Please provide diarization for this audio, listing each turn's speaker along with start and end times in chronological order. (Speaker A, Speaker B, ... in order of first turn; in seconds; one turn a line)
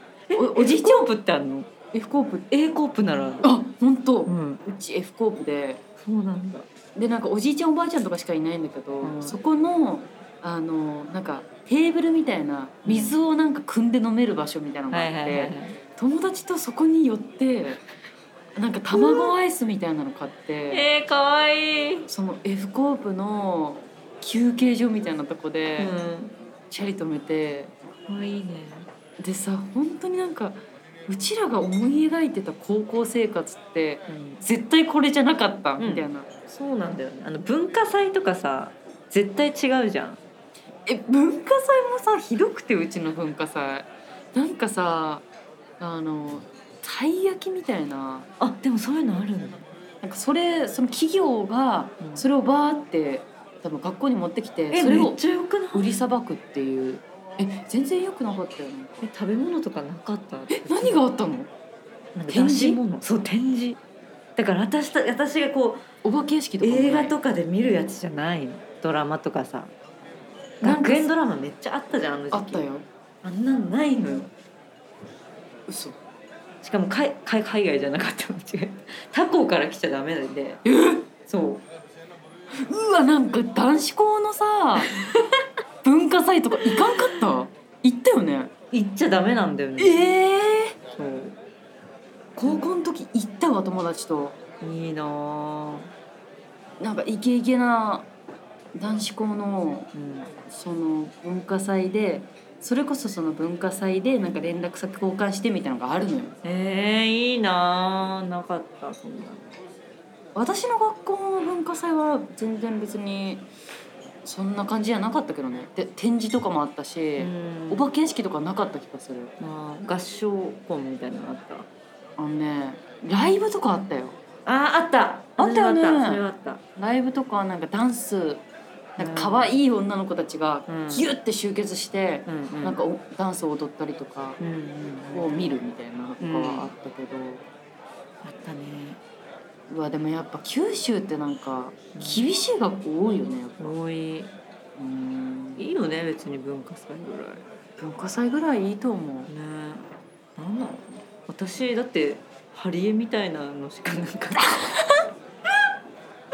Speaker A: 0.3-1.7
Speaker B: 0.3-1.1
Speaker B: 1.9-2.5
Speaker A: 2.5-3.5
Speaker B: 3.4-5.8
Speaker A: 4.2-4.6
Speaker A: 6.0-6.7
Speaker B: 6.9-17.8
Speaker A: 9.0-9.4
Speaker A: 12.8-13.2
Speaker A: 14.9-15.8
Speaker B: 18.6-20.9
Speaker A: 18.9-19.3
Speaker A: 20.7-22.1
Speaker B: 22.1-25.9
Speaker A: 25.8-26.4
Speaker B: 26.7-27.7
Speaker A: 28.1-28.9
Speaker B: 29.2-36.3
Speaker A: 34.1-34.4
Speaker A: 35.8-40.2
Speaker B: 40.9-45.2
Speaker B: 45.8-48.3
Speaker A: 48.4-49.7
Speaker B: 50.0-59.0
Speaker A: 54.7-55.8
Speaker A: 59.0-61.0
Speaker B: 60.5-61.5
Speaker A: 62.1-63.8
Speaker B: 62.3-62.8
Speaker A: 64.3-65.8
Speaker B: 66.0-67.2
Speaker A: 66.6-69.7
Speaker A: 70.6-72.6
Speaker B: 70.6-71.1
Speaker B: 72.3-72.8
Speaker A: 73.2-74.3
Speaker B: 75.7-76.0
Speaker A: 76.6-80.6
Speaker B: 80.6-81.1
Speaker A: 81.3-81.6
Speaker B: 82.6-84.9
Speaker B: 85.8-88.5
Speaker A: 88.7-90.0
Speaker B: 89.8-90.8
Speaker A: 90.9-91.4
Speaker A: 92.3-92.6
Speaker B: 92.4-94.4
Speaker A: 94.6-95.9
Speaker B: 96.8-98.1
Speaker B: 98.7-99.9
Speaker A: 99.9-100.3
Speaker B: 100.5-106.4
Speaker A: 106.4-109.5
Speaker B: 110.3-113.5
Speaker B: 114.2-119.3
Speaker A: 117.2-117.8
Speaker A: 119.4-121.7
Speaker B: 122.2-124.2
Speaker A: 124.4-126.6
Speaker B: 125.4-126.2
Speaker B: 126.8-128.4
Speaker B: 129.0-134.4
Speaker A: 129.0-129.5
Speaker A: 130.7-131.1
Speaker A: 132.2-132.8
Speaker A: 134.4-135.4
Speaker B: 135.1-137.4
Speaker A: 136.2-136.7
Speaker A: 138.2-139.0
Speaker B: 139.7-143.8
Speaker A: 141.9-142.3
Speaker A: 143.6-144.3
Speaker B: 144.8-145.6
Speaker A: 145.6-147.4
Speaker B: 147.8-149.3
Speaker A: 149.3-154.6
Speaker B: 154.4-154.8